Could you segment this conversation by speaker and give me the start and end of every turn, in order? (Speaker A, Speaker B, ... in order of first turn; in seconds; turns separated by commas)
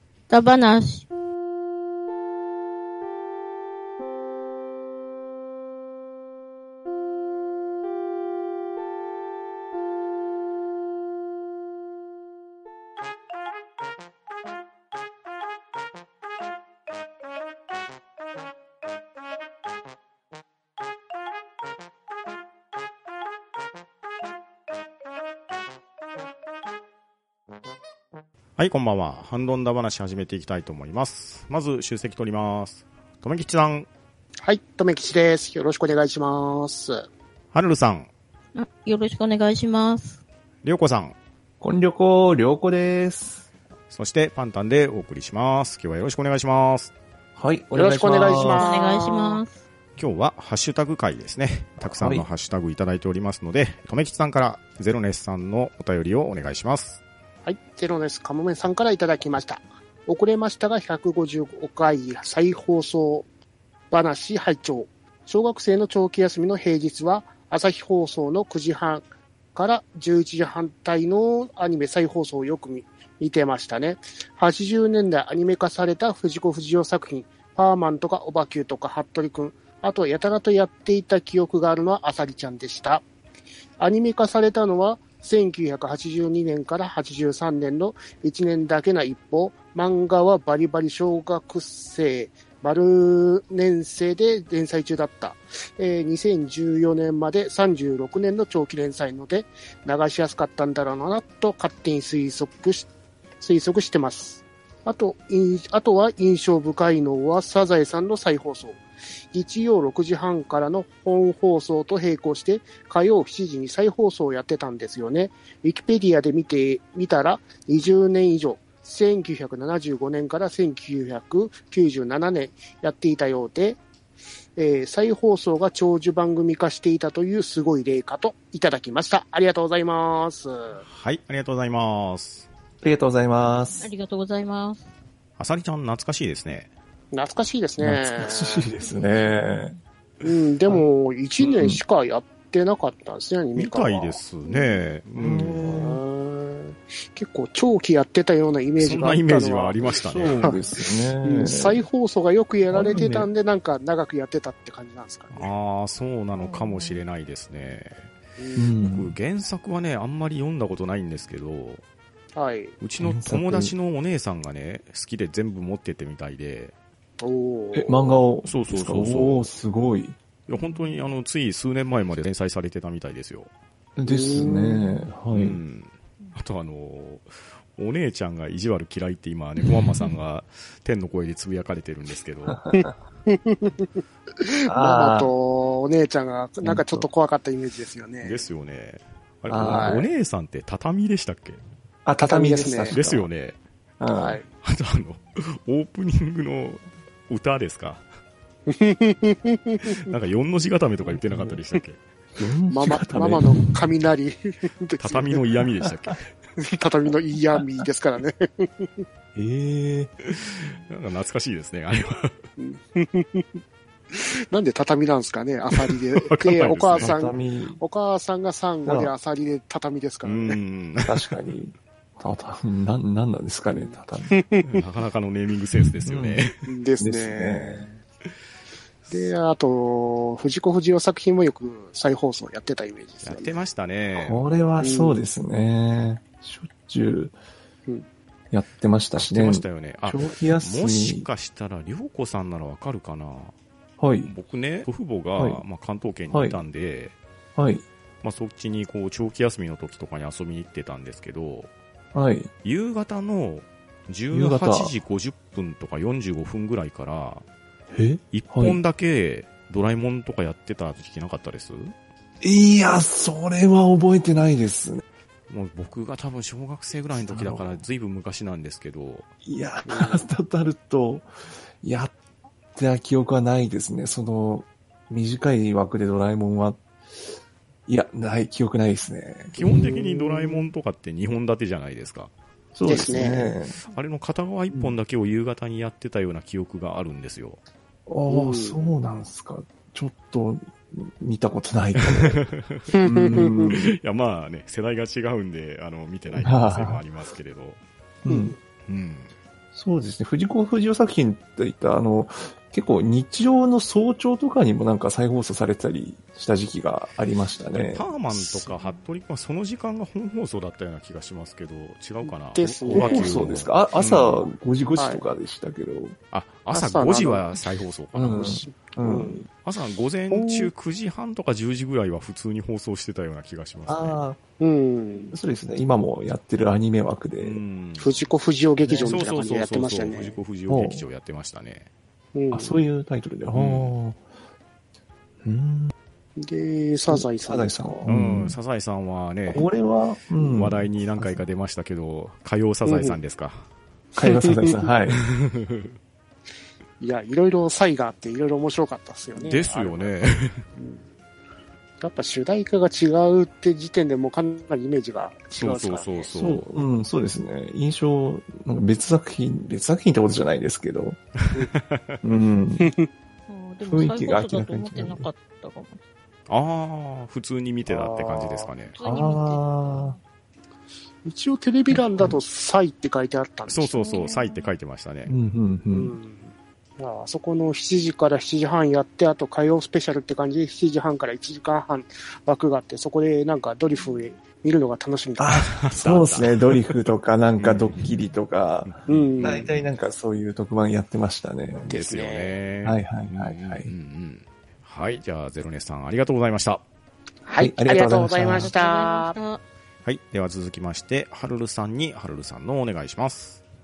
Speaker A: 0.3-1.1, Speaker B: 28.6-33.9, Speaker C: 34.4-37.0, Speaker B: 37.5-38.1, Speaker A: 38.5-40.2, Speaker B: 40.6-41.1, Speaker D: 41.6-43.5, Speaker B: 43.9-46.9, Speaker D: 47.4-48.7, Speaker C: 47.7-49.4, Speaker A: 48.3-49.6, Speaker B: 50.0-57.0, Speaker D: 52.0-52.3, Speaker C: 57.4-63.2, Speaker C: 63.9-69.0, Speaker C: 69.5-83.0, Speaker C: 83.8-102.9, Speaker C: 103.4-108.8, Speaker C: 109.3-123.8, Speaker C: 124.5-130.8, Speaker B: 130.8-132.5, Speaker D: 132.8-133.9, Speaker A: 133.8-134.9, Speaker B: 135.4-136.7, Speaker C: 137.1-138.7, Speaker D: 137.8-139.8, Speaker C: 140.2-144.2, Speaker D: 141.4-141.8, Speaker B: 143.6-145.6, Speaker D: 145.2-146.0, Speaker C: 145.6-150.7, Speaker B: 148.8-150.6, Speaker D: 150.1-151.8, Speaker C: 151.2-155.5, Speaker D: 152.7-153.3, Speaker B: 155.3-158.0, Speaker A: 156.3-157.0, Speaker C: 158.4-158.7, Speaker D: 158.6-159.2, Speaker B: 158.8-161.8, Speaker C: 162.3-162.8, Speaker B: 162.8-166.7, Speaker D: 163.0-163.8, Speaker C: 167.2-168.2, Speaker D: 167.7-170.2, Speaker B: 168.4-169.4, Speaker B: 170.5-173.5, Speaker A: 170.6-171.1, Speaker D: 173.9-175.6, Speaker C: 174.1-175.0, Speaker B: 175.3-182.6, Speaker D: 182.5-182.8, Speaker C: 182.7-183.9, Speaker C: 184.4-188.4, Speaker D: 184.7-185.3, Speaker D: 186.6-187.1, Speaker B: 188.2-191.6, Speaker D: 189.5-190.0, Speaker C: 189.6-190.1, Speaker D: 192.0-193.2, Speaker C: 192.2-193.0, Speaker B: 192.9-193.6, Speaker D: 194.0-194.4, Speaker C: 194.1-194.4, Speaker B: 194.5-198.0, Speaker C: 198.7-200.0, Speaker B: 200.0-202.0, Speaker D: 201.0-201.6, Speaker D: 202.3-203.7, Speaker C: 202.7-205.4, Speaker B: 205.0-206.3, Speaker C: 206.6-209.0, Speaker D: 209.3-210.1, Speaker B: 210.2-212.4, Speaker C: 212.6-220.6, Speaker B: 215.8-217.2, Speaker D: 217.0-217.8, Speaker D: 218.8-219.1, Speaker B: 220.2-221.2, Speaker D: 221.0-224.4, Speaker C: 223.7-224.7, Speaker B: 224.6-226.7, Speaker D: 226.0-226.5, Speaker C: 226.7-227.8, Speaker D: 227.0-228.0, Speaker B: 229.0-229.3, Speaker C: 229.1-233.6, Speaker B: 233.2-234.4, Speaker D: 234.2-237.3, Speaker C: 234.8-235.2, Speaker D: 238.5-241.3, Speaker B: 239.2-243.5, Speaker D: 244.0-244.3, Speaker B: 244.2-247.1, Speaker D: 245.3-245.6, Speaker D: 246.3-246.6, Speaker D: 247.6-247.8, Speaker B: 248.2-251.7, Speaker D: 252.1-252.5, Speaker B: 252.6-257.4, Speaker D: 254.3-254.9, Speaker D: 257.9-258.8, Speaker B: 258.3-261.9, Speaker D: 262.4-265.0, Speaker B: 265.5-269.3, Speaker D: 267.1-267.9, Speaker D: 269.4-271.3, Speaker C: 269.8-270.2, Speaker D: 271.8-272.1, Speaker D: 272.7-276.8, Speaker D: 277.9-279.6, Speaker B: 279.5-282.3, Speaker C: 279.6-280.7, Speaker D: 282.7-283.7, Speaker C: 282.8-283.5, Speaker B: 283.9-287.6, Speaker D: 284.7-284.9, Speaker D: 288.1-292.4, Speaker C: 288.3-288.9, Speaker B: 292.0-297.8, Speaker C: 292.9-293.7, Speaker D: 293.0-293.9, Speaker D: 296.3-297.0, Speaker D: 298.2-298.5, Speaker C: 298.3-298.6, Speaker B: 298.9-299.3, Speaker D: 299.7-308.6, Speaker B: 307.7-314.5, Speaker C: 312.2-313.6, Speaker D: 312.9-316.2, Speaker C: 314.9-315.2, Speaker B: 316.3-318.6, Speaker C: 316.7-317.5, Speaker D: 318.1-319.5, Speaker C: 318.4-319.4, Speaker B: 319.6-324.2, Speaker C: 320.3-320.7, Speaker D: 323.9-324.4, Speaker C: 324.6-325.4, Speaker D: 325.3-327.6, Speaker B: 327.4-328.3, Speaker C: 328.0-330.4, Speaker D: 328.8-329.2, Speaker B: 329.0-331.9, Speaker D: 330.7-331.1, Speaker C: 332.3-332.8, Speaker D: 332.5-334.2, Speaker B: 333.5-333.9, Speaker D: 335.4-335.9, Speaker C: 336.4-338.0, Speaker D: 337.1-338.6, Speaker B: 338.0-339.6, Speaker D: 339.5-341.4, Speaker B: 340.4-343.6, Speaker C: 342.8-343.1, Speaker C: 344.1-344.9, Speaker D: 344.1-345.2, Speaker B: 345.1-345.9, Speaker C: 347.0-350.2, Speaker B: 349.3-350.6, Speaker C: 350.8-351.0, Speaker C: 352.0-356.3, Speaker B: 355.5-356.7, Speaker D: 356.3-361.2, Speaker B: 361.5-362.2, Speaker D: 362.2-362.9, Speaker C: 362.8-363.1, Speaker A: 363.5-366.0, Speaker D: 363.8-365.3, Speaker B: 366.5-369.0, Speaker C: 367.9-368.7, Speaker A: 368.9-370.2, Speaker D: 369.0-370.2, Speaker C: 371.2-374.3, Speaker D: 371.9-372.4, Speaker B: 373.7-375.3, Speaker A: 373.9-374.7, Speaker D: 375.2-376.1, Speaker C: 375.9-385.6, Speaker D: 385.4-391.9, Speaker B: 385.5-386.9, Speaker B: 387.6-388.1, Speaker B: 388.9-389.9, Speaker C: 389.1-389.6, Speaker C: 391.9-392.6, Speaker B: 391.9-396.8, Speaker D: 392.8-393.9, Speaker C: 397.4-399.4, Speaker D: 397.6-398.7, Speaker A: 398.5-399.6, Speaker B: 400.0-403.6